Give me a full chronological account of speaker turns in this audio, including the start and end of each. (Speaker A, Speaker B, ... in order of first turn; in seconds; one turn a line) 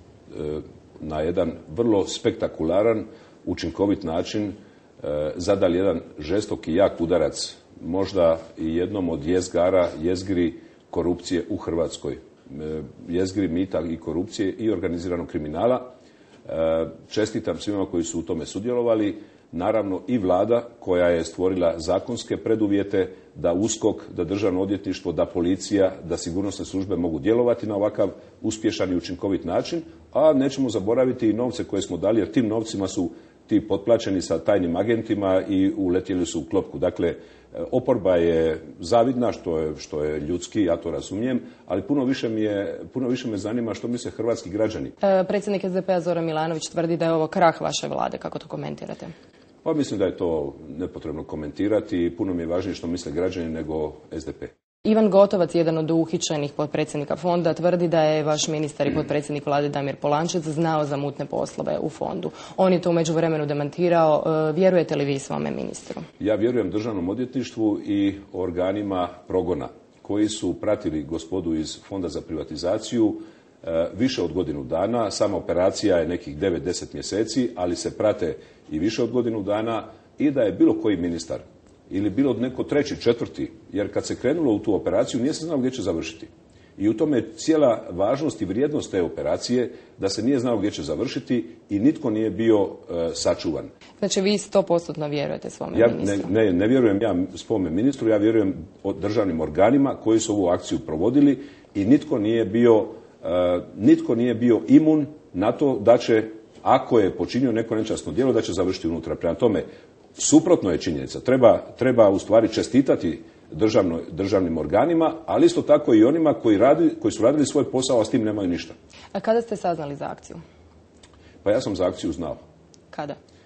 Speaker A: 0.3-15.9
Speaker A: 16.4-44.9
Speaker B: 45.0-49.1
Speaker A: 49.6-54.5
Speaker B: 54.8-66.0
Speaker A: 66.2-93.7
Speaker B: 94.0-96.3
Speaker A: 95.7-109.6
Speaker A: 110.2-118.8
Speaker B: 119.1-120.4
Speaker A: 121.4-122.4
Speaker B: 122.9-123.2